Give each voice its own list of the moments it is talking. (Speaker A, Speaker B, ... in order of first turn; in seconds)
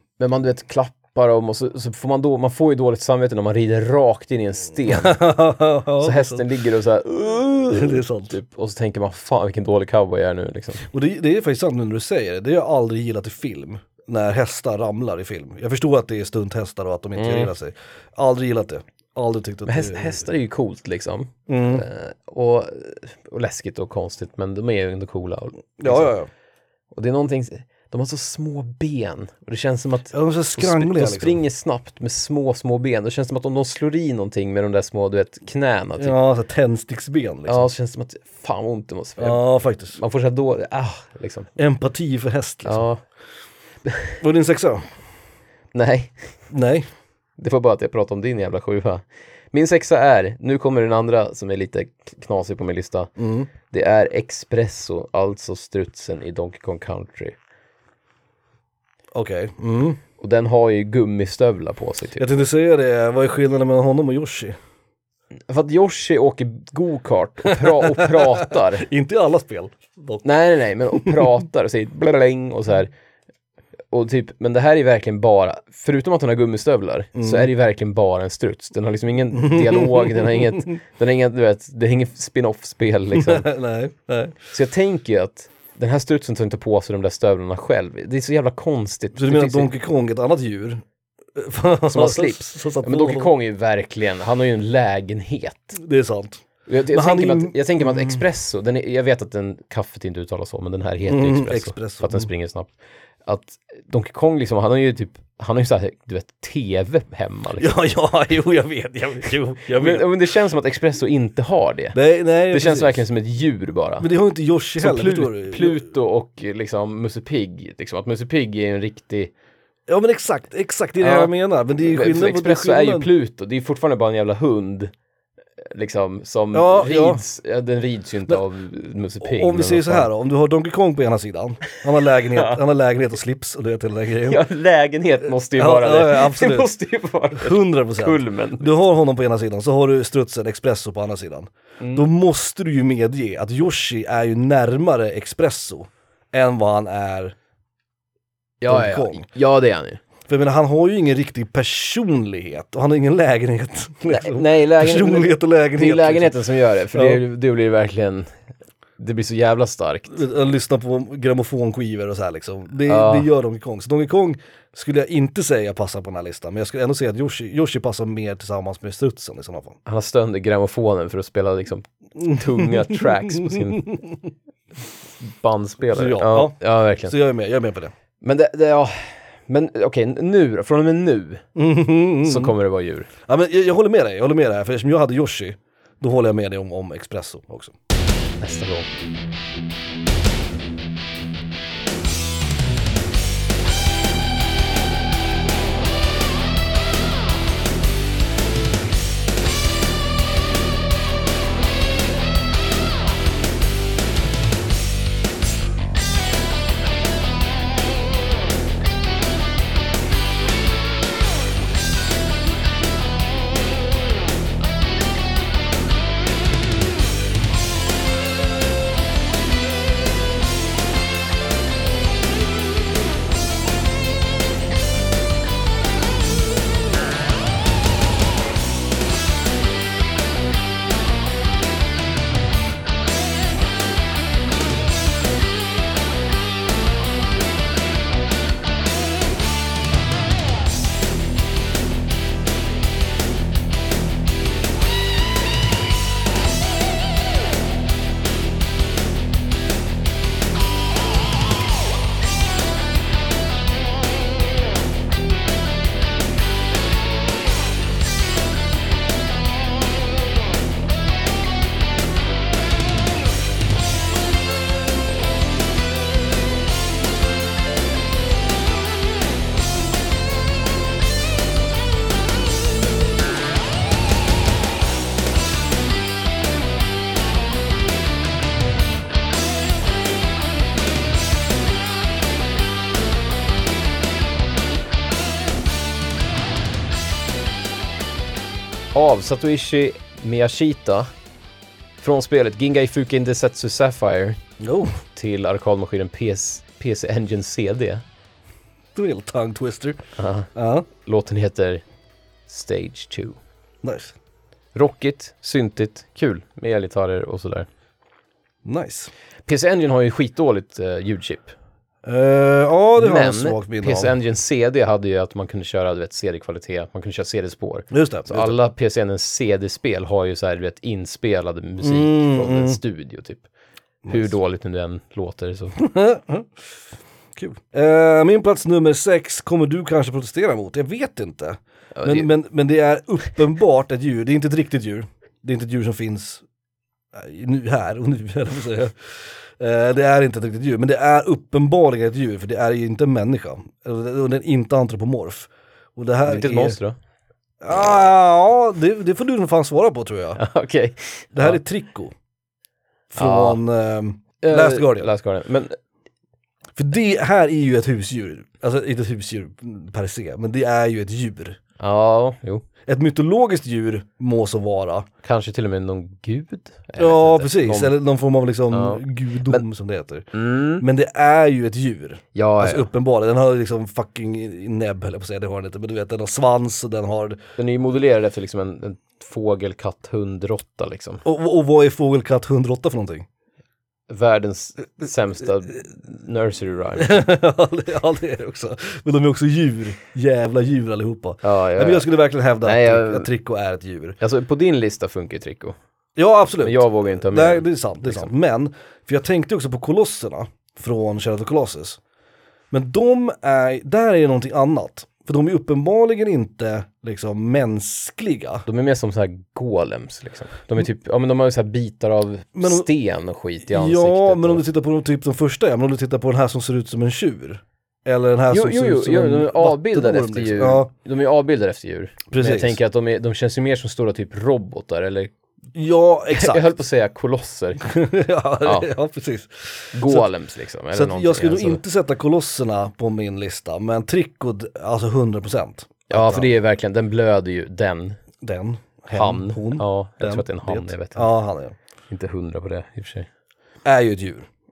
Speaker A: 0.2-5.2, 6.0-10.8, 17.2-17.5, 19.6-26.1, 26.9-36.1, 37.5-41.5, 42.6-43.0, 43.8-44.2, 45.7-46.2, 47.4-53.1, 53.7-57.4, 60.2-62.3, 65.5-68.9, 70.2-72.9, 73.9-83.5, 84.5-89.7, 91.9-95.8, 96.7-102.7, 103.2-107.8, 109.7-112.0, 112.5-114.1, 114.8-119.3, 121.0-124.9, 125.6-130.1, 134.3-138.7, 148.6-150.0, 154.1-158.3, 159.0-160.2, 162.8-163.3, 169.8-173.9, 175.2-177.1, 178.2-181.4, 182.2-183.1, 188.4-188.9, 288.9-291.1, 292.0-294.4, 295.1-298.0, 300.2-301.8, 302.5-303.4, 304.7-307.7, 309.4-311.5, 312.9-323.4, 324.1-325.7, 331.9-332.3, 346.2-347.0, 350.4-351.6, 353.2-353.6, 354.4-355.8, 361.8-362.6, 365.2-367.9, 368.7-369.6, 370.3-370.8, 372.3-372.9, 377.6-381.2, 384.1-387.3, 391.4-392.1, 392.6-393.3, 394.2-395.8, 396.6-398.3, 408.6-414.6, 418.5-425.3, 426.3-427.8, 428.6-428.9, 429.9-431.8, 436.1-438.2, 439.1-441.3, 442.1-443.3
Speaker B: 4.9-6.5, 7.5-8.3, 10.8-20.3, 21.5-21.9, 25.8-26.3, 30.1-31.4, 36.0-37.7, 39.2-40.0, 41.6-42.8, 44.2-44.9, 46.5-46.9, 53.2-53.5, 59.1-60.0, 62.2-64.6, 67.5-70.2, 70.9-71.3, 77.2-77.5, 79.4-80.7, 83.1-84.4, 89.1-90.8, 91.3-93.3, 95.8-98.2, 101.0-102.3, 107.6-110.1, 111.9-113.0, 114.0-115.8, 119.9-123.1, 126.5-127.2, 129.2-134.4, 135.6-136.7, 137.3-147.3, 148.7-149.3, 150.3-156.3, 156.9-157.2, 160.1-169.8, 172.2-174.2, 175.9-177.9, 181.6-182.5, 183.3-187.7, 294.6-295.0, 298.9-300.9, 303.8-304.1, 308.6-309.1, 312.0-314.1, 317.9-318.6, 321.8-322.8, 324.0-324.3, 325.8-326.5, 327.4-336.4, 337.1-338.9, 339.6-346.8, 347.6-350.4, 351.3-352.1, 353.1-355.1, 356.8-361.6, 362.9-365.1, 367.0-377.5, 381.2-383.2, 387.0-394.2, 396.2-402.0, 402.7-408.6, 412.6-412.9, 413.7-420.9, 422.3-422.8, 425.7-426.7, 427.8-430.3, 430.9-436.5, 438.4-441.8, 443.8-444.5